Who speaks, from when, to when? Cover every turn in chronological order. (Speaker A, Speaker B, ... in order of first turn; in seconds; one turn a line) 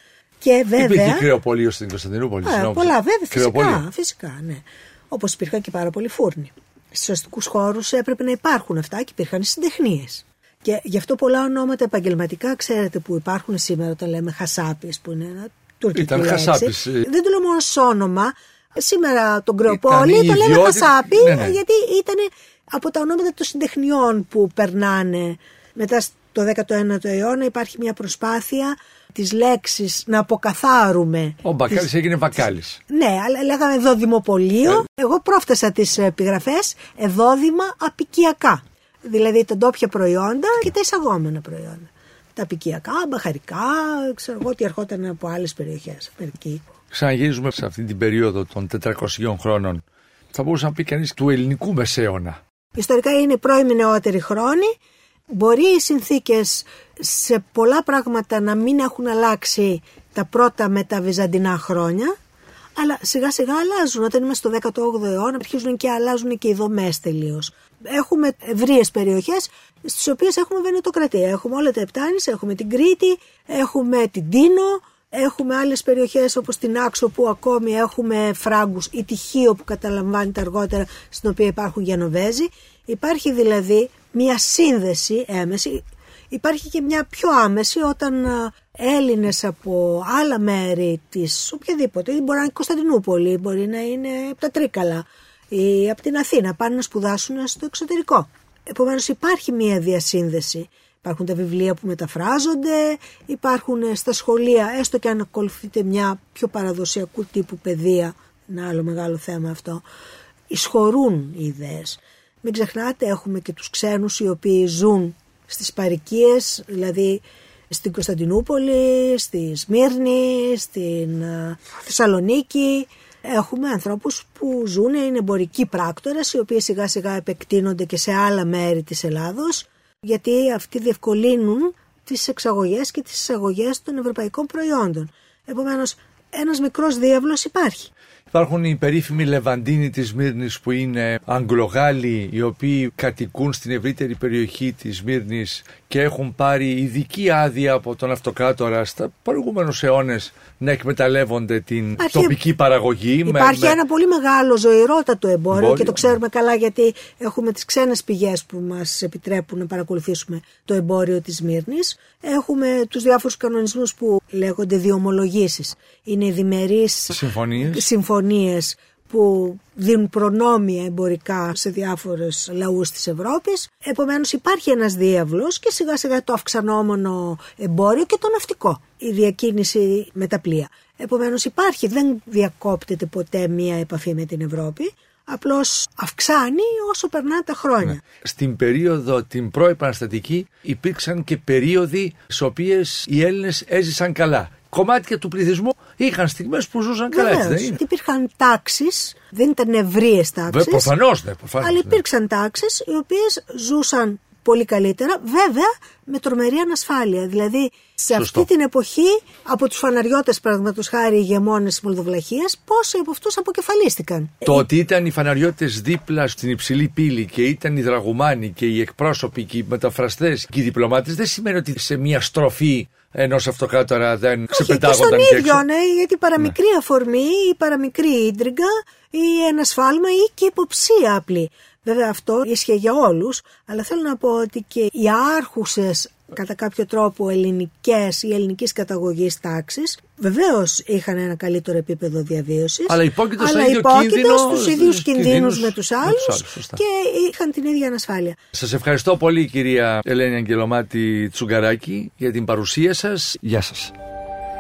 Speaker A: 0.4-1.3
Speaker B: 0.8-3.8
Speaker A: 2.4-31.9
Speaker B: 15.9-17.1
Speaker B: 19.7-21.6
Speaker B: 31.4-32.8
Speaker A: 32.9-46.6
Speaker B: 46.9-52.4
Speaker A: 52.8-54.7
Speaker A: 55.3-62.2
Speaker A: 62.8-109.8
Speaker A: 110.5-137.9
Speaker B: 138.3-153.8
Speaker A: 152.0-152.3
Speaker A: 153.3-188.0
Speaker B: 155.5-156.1
Speaker B: 167.1-167.8
Speaker B: 187.8-197.8
Speaker A: 197.1-200.9
Speaker B: 200.5-202.0
Speaker A: 201.6-214.7
Speaker B: 208.1-208.5
Speaker B: 214.4-225.6
Speaker A: 224.5-248.4
Speaker B: 242.9-246.8
Speaker B: 248.5-253.9